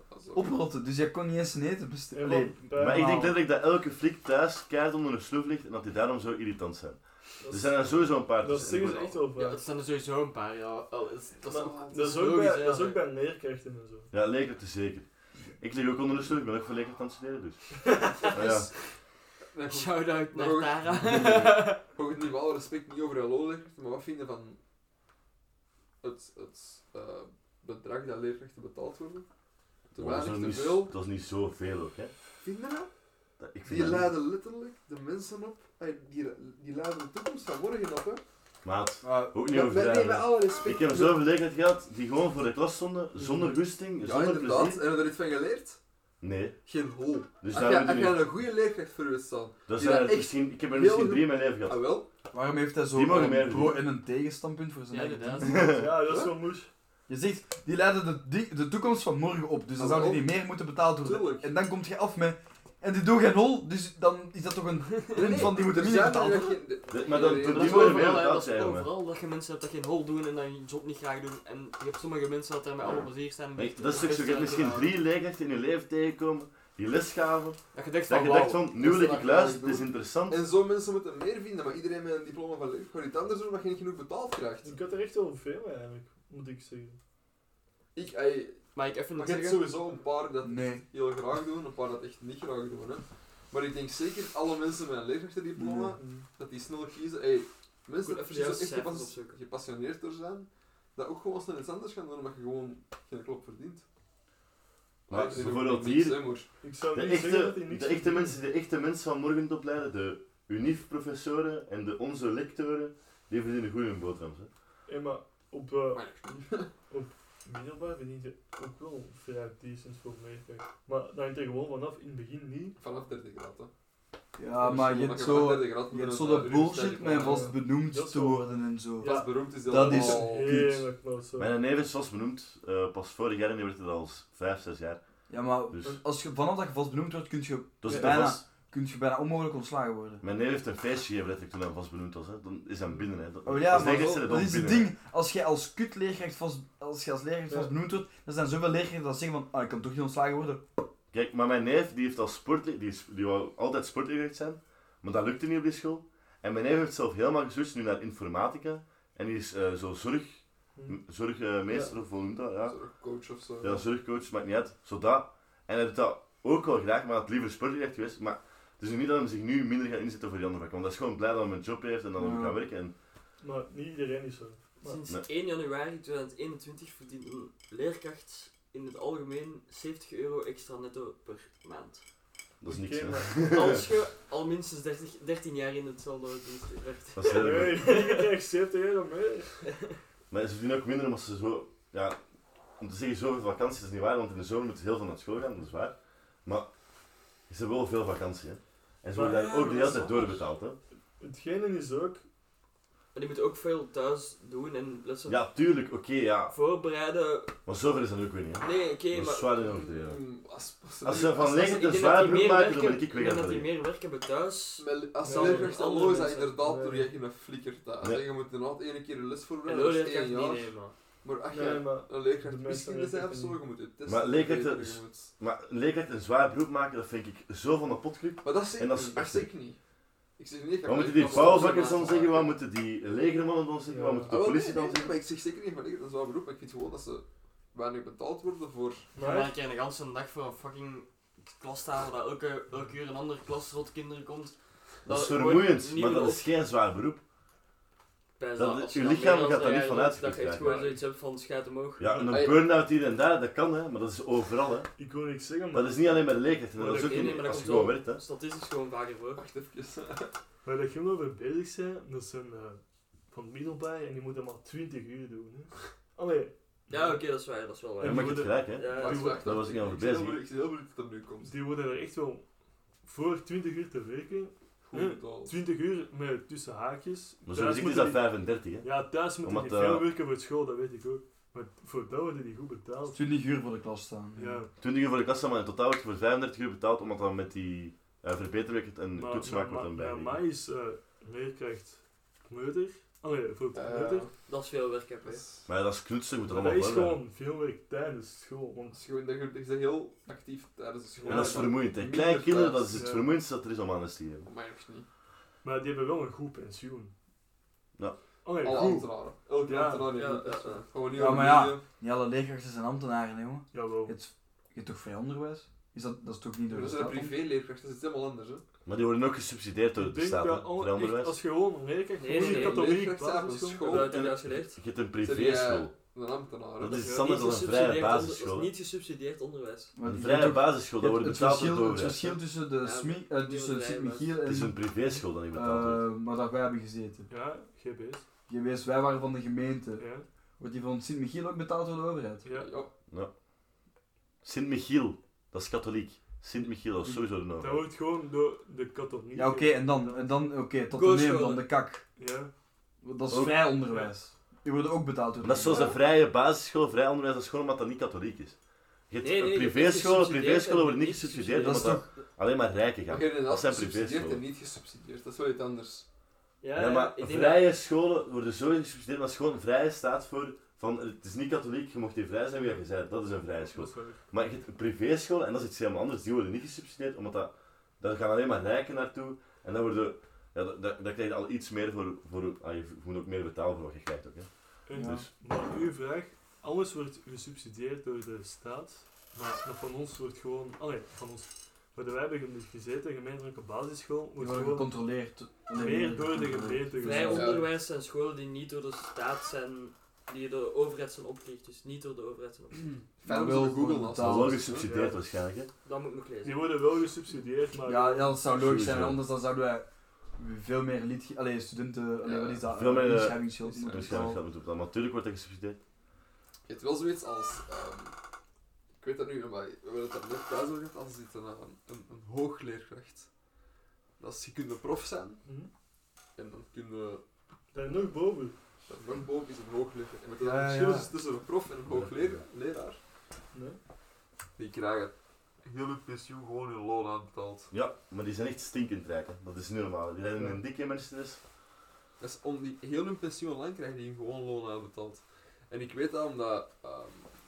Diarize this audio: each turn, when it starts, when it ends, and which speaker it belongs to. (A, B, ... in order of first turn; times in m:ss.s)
0:00.1-0:00.5 A
0:00.3-0:03.3 B
0:02.1-0:03.3 C
0:02.8-0:09.1 D
0:07.4-0:09.6 C
0:09.1-0:13.0 E
0:11.5-0:14.1 C
0:11.5-0:12.4 A
0:14.1-0:15.1 D
0:15.6-0:18.7 D
0:17.8-0:18.7 E
0:19.5-0:24.6 A
0:19.7-0:21.8 E
0:20.9-0:21.6 B
0:26.0-0:29.3 A
0:29.9-0:30.9 A
0:30.0-0:32.1 D
0:32.4-0:32.9 A
0:33.4-0:34.1 D
0:33.6-0:38.2 A
0:38.6-0:44.8 D
0:39.0-0:39.4 B
0:39.5-0:41.2 A
0:43.2-0:43.6 C
0:44.0-0:45.8 A
0:46.2-0:46.6 D
0:46.6-0:52.1 A
0:47.4-0:48.3 D
0:49.7-0:51.8 D
0:52.3-0:55.8 B
0:52.9-0:53.9 D
0:54.9-0:55.6 E
0:55.4-0:56.0 D
0:55.6-0:56.7 C
0:56.0-0:56.4 A
0:57.1-1:06.6 B
0:59.8-1:00.3 A
1:01.0-1:01.5 A
1:05.2-1:08.3 A
1:06.9-1:08.9 D
1:07.2-1:15.0 E
1:13.6-1:20.4 D
1:17.7-1:18.6 E
1:18.7-1:24.8 A
1:24.6-1:27.0 C
1:27.9-1:43.8 A
1:28.7-1:29.7 E
1:30.4-1:30.8 B
1:35.6-1:36.0 B
1:36.0-1:36.3 C
1:38.0-1:39.4 E
1:45.1-1:46.5 A
1:45.1-1:46.2 D
1:46.6-1:48.4 C
1:46.9-1:54.5 D
1:54.9-1:56.0 C
1:55.9-1:56.7 A
1:56.9-2:02.8 C
2:02.8-2:03.7 A
2:04.4-2:10.9 B
2:04.6-2:07.6 A
2:07.1-2:11.6 C
2:09.0-2:10.7 A
2:11.4-2:15.0 D
2:15.3-2:20.2 B
2:15.7-2:16.0 D
2:17.8-2:18.4 D
2:20.2-2:24.9 D
2:23.4-2:30.6 B
2:23.7-2:24.7 A
2:31.1-2:42.8 D
2:40.8-2:41.0 C
2:41.7-2:41.9 C
2:42.6-2:43.9 A
2:43.6-2:52.9 D
2:52.2-2:52.6 B
2:53.4-2:55.0 C
2:54.8-3:02.0 E
3:02.6-3:03.9 D
3:02.6-3:03.8 C
3:03.5-3:08.3 E
3:07.2-3:07.9 D
3:07.3-3:09.7 C
3:09.7-3:09.9 E
3:10.3-3:12.2 D
3:12.8-3:16.7 D
3:17.5-3:20.8 D
3:19.2-3:20.2 C
3:19.3-3:20.4 E
3:21.2-3:22.2 C
3:23.1-3:25.4 E
3:25.3-3:26.5 D
3:26.5-3:27.5 E
3:27.7-3:30.2 D
3:28.6-3:29.5 E
3:29.6-3:31.7 A
3:31.0-3:33.7 D
3:31.5-3:36.6 E
3:34.8-3:45.3 A
3:35.2-3:35.8 C
3:36.6-3:37.1 C
3:39.6-3:41.0 E
3:41.5-3:43.6 C
3:44.1-3:49.5 D
3:48.4-3:49.8 A
3:50.4-3:52.6 A
3:50.8-3:55.2 D
3:51.2-3:52.4 E
3:53.9-3:54.3 C
3:54.3-3:59.1 A
3:59.1-3:59.5 C
3:59.2-4:06.5 E
4:05.1-4:07.2 D
4:08.4-4:12.3 E
4:08.6-4:10.8 D
4:10.6-4:11.0 C
4:12.0-4:14.9 D
4:12.3-4:12.6 A
4:15.0-4:16.2 C
4:15.7-4:18.2 D
4:16.8-4:17.4 C
4:16.9-4:19.4 E
4:19.4-4:20.3 A
4:20.6-4:27.2 C
4:26.9-4:29.4 E
4:28.0-4:29.7 C
4:28.0-4:30.4 D
4:28.9-4:31.5 A
4:31.4-4:32.5 C
4:33.0-4:38.2 C
4:34.9-4:35.6 A
4:37.5-4:40.1 D
4:38.8-4:43.2 C
4:43.1-4:44.6 B
4:44.4-4:44.7 C
4:44.8-4:50.4 D
4:49.1-4:54.3 C
4:53.7-4:54.3 A
4:54.5-4:55.4 E
4:55.2-4:55.7 A
4:55.7-4:57.2 D
4:56.5-4:59.0 C
4:58.9-5:03.0 A
5:01.2-5:01.8 C
5:01.3-5:04.5 D
5:02.9-5:03.3 C
5:04.4-5:05.1 A
5:05.6-5:07.1 C
5:08.4-5:10.2 C
5:08.6-5:11.8 A
5:08.7-5:09.0 B
5:10.1-5:10.8 E
5:11.1-5:17.4 B
5:13.7-5:14.2 C
5:16.7-5:18.6 A
5:18.9-5:21.4 D
5:20.0-5:24.0 C
5:22.2-5:23.0 E
5:22.3-5:24.1 A
5:23.8-5:24.8 E
5:23.9-5:25.9 D
5:25.2-5:27.1 A
5:26.8-5:28.7 D
5:26.8-5:29.9 E
5:30.0-5:37.3 B
5:30.1-5:32.4 D
5:32.8-5:34.4 E
5:34.4-5:36.1 D
5:37.3-5:38.2 C
5:38.5-5:40.1 B
5:40.0-5:40.2 C
5:40.6-5:42.4 B
5:42.4-5:42.8 C
5:42.5-5:42.9 A
5:44.4-5:47.9 D
5:47.6-5:50.4 C
5:49.3-5:52.0 B
5:50.9-5:51.6 E
5:52.2-5:52.5 C
5:53.0-5:56.0 B
5:53.3-5:53.7 D
5:55.4-5:58.6 D
5:59.1-6:04.4 D
5:59.2-6:01.9 E
6:01.6-6:02.2 B
6:03.1-6:06.1 A
6:06.6-6:07.7 E
6:06.8-6:25.3 D
6:12.5-6:12.8 C
6:13.6-6:14.2 C
6:24.9-6:34.9 C
6:24.9-6:25.3 B
6:34.4-6:37.6 B
6:35.7-6:37.5 C
6:37.0-6:42.9 E
6:37.3-6:37.7 A
6:43.2-6:44.9 A
6:43.2-6:44.8 B
6:44.1-6:45.7 D
6:44.8-6:45.2 C
6:45.8-6:46.7 E
6:46.4-6:48.4 C
6:47.8-6:54.4 B
6:48.5-6:49.2 D
6:52.2-6:52.7 A
6:52.7-6:55.8 D
6:53.6-6:54.4 A
6:56.7-6:58.2 A
6:59.0-7:03.3 A
7:04.2-7:05.4 A
7:05.4-7:05.7 C
7:06.4-7:07.2 A
7:07.7-7:08.6 C
7:08.8-7:13.0 A
7:10.4-7:11.1 B
7:11.9-7:12.4 D
7:13.5-7:13.8 C
7:14.6-7:17.7 A
7:17.7-7:21.4 D
7:22.2-7:27.3 A